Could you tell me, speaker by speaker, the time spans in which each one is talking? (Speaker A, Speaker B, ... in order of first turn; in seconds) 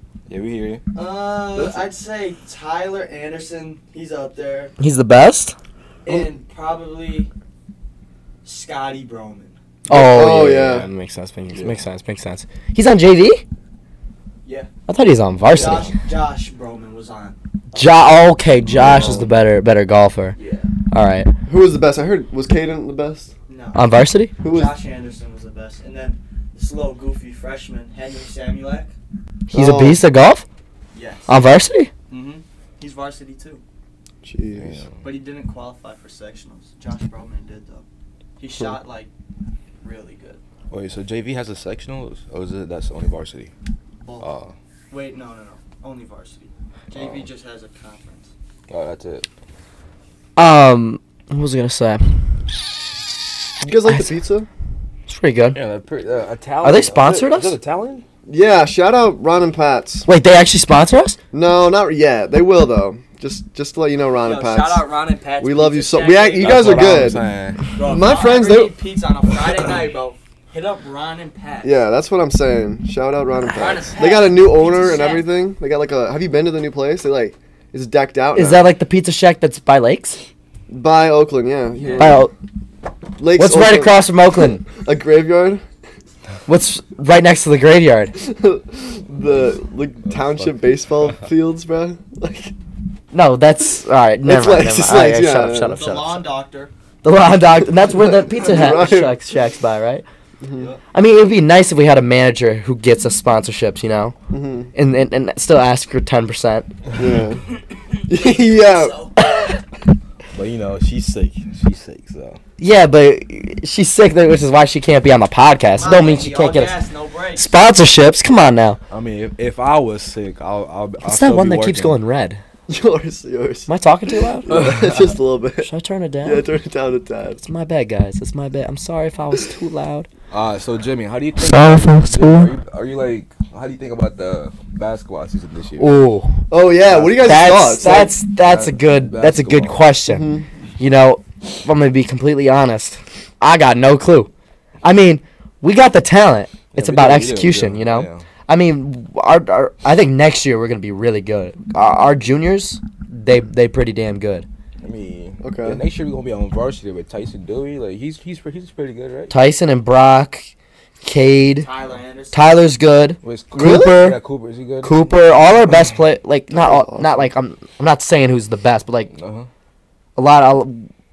Speaker A: 0.3-0.8, 34.6-35.0, 40.7-43.5, 44.2-44.5, 46.9-47.3, 48.7-49.3, 55.5-58.0, 66.4-67.6, 90.1-90.7, 110.3-112.4, 118.9-122.0, 124.5-125.1, 130.3-136.0, 136.9-139.8, 146.7-148.2, 154.8-159.3, 163.2-165.0, 169.1-169.5
Speaker B: 0.9-4.7, 6.0-7.3, 8.4-9.6, 14.4-14.7, 15.5-17.8, 20.4-20.7, 23.5-23.8, 24.4-28.9, 30.9-31.3, 32.1-33.6, 35.0-37.8, 38.4-39.1, 39.8-40.4, 44.0-44.3, 44.9-48.3, 64.2-67.0, 67.8-71.8, 73.4-75.3, 95.7-96.7, 107.9-109.1, 115.8-117.5, 161.6-162.5
Speaker C: 1.6-1.8, 9.9-10.9, 15.5-15.9, 18.8-19.3, 21.5-23.3, 24.4-24.7, 29.5-30.0, 34.2-34.8, 53.6-54.5, 58.3-60.1, 61.3-64.8, 65.4-67.2, 67.8-68.8, 71.6-78.7, 80.7-82.3, 83.2-84.1, 84.7-85.6, 88.2-92.5, 94.2-95.8, 97.8-99.2, 100.4-100.7, 104.3-104.7, 107.0-107.4, 108.1-109.0, 122.7-123.7, 124.4-125.7, 126.2-127.4, 136.5-138.2, 140.1-140.5, 155.4-155.8, 163.6-163.9, 166.5-167.3
Speaker D: 4.8-5.5, 9.9-13.4, 14.9-15.9, 17.8-20.4, 20.9-21.3, 23.8-24.3, 29.5-30.4, 31.3-31.9, 50.4-52.0, 53.6-54.1, 55.1-55.6, 56.6-57.5, 60.1-61.2, 78.3-80.2, 82.0-82.3, 83.3-84.6, 86.5-88.2, 93.1-96.2, 97.0-100.0, 100.9-104.2, 104.7-106.7, 109.3-109.5, 112.6-116.8, 117.4-118.8, 121.0-122.4, 123.7-124.5, 125.6-126.5, 127.4-130.1, 131.4-132.5, 135.8-136.4, 137.2-144.3, 144.8-154.5, 159.3-160.5, 161.0-161.7, 162.3-164.2, 164.8-169.1, 170.2-170.9